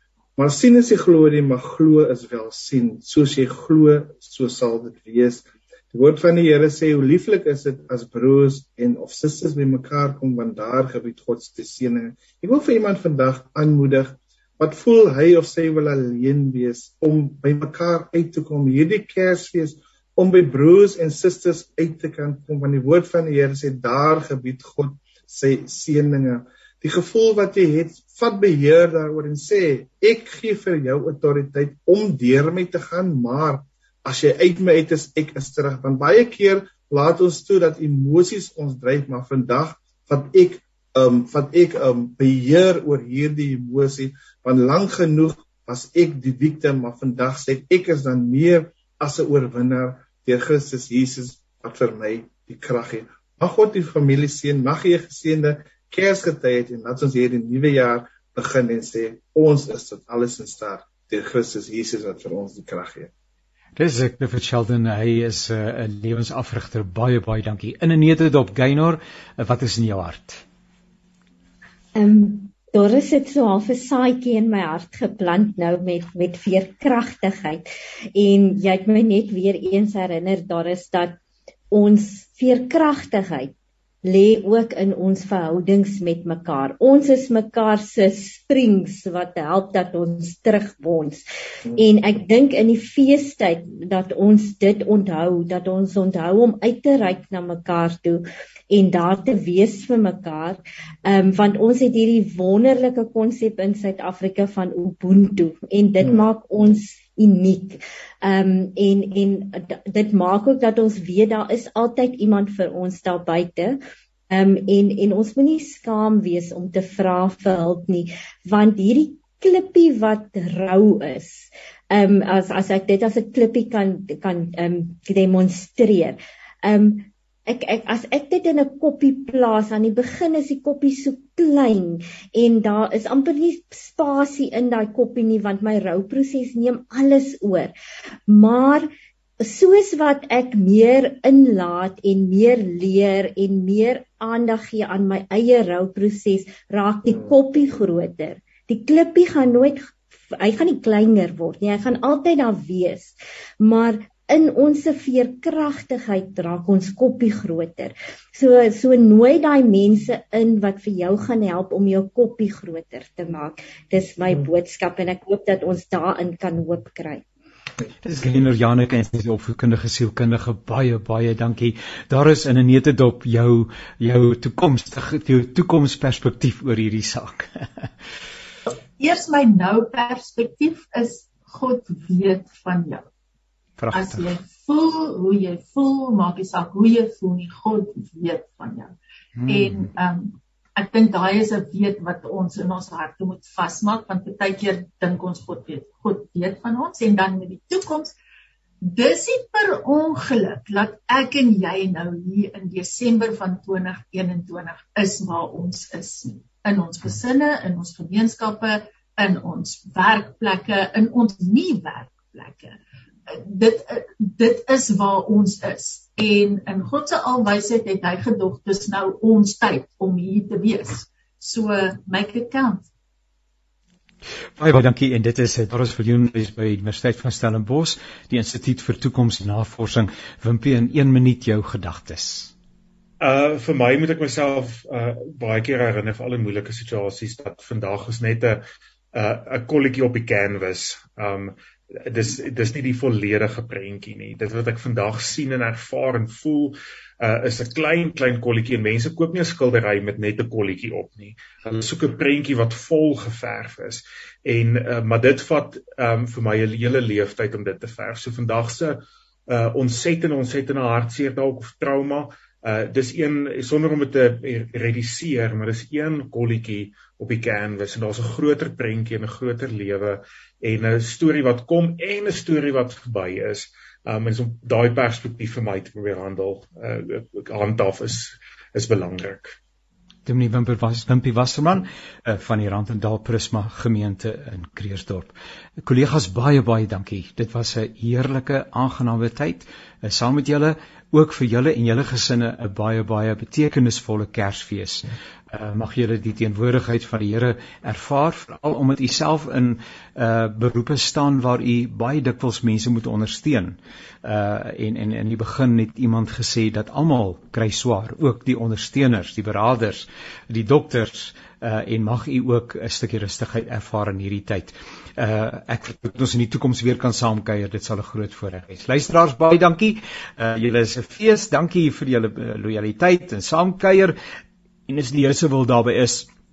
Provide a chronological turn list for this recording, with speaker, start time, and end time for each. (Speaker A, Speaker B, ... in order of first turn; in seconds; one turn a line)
Speaker A: 0.4-63.1
Speaker B: 63.8-70.4
Speaker C: 71.9-77.6
Speaker C: 78.2-81.2
Speaker C: 81.7-83.5
Speaker C: 84.0-113.8
Speaker C: 114.3-137.7
Speaker C: 138.3-138.9
Speaker C: 139.4-167.2
Speaker B: 168.0-177.9
Speaker D: 178.7-183.0
Speaker B: 183.8-184.4
Speaker D: 183.9-188.9
Speaker B: 189.4-189.9
Speaker D: 189.5-198.1
Speaker D: 198.8-222.8
Speaker B: 224.6-232.5
Speaker E: 233.2-279.6
Speaker B: 280.2-324.1
Speaker B: 324.9-326.3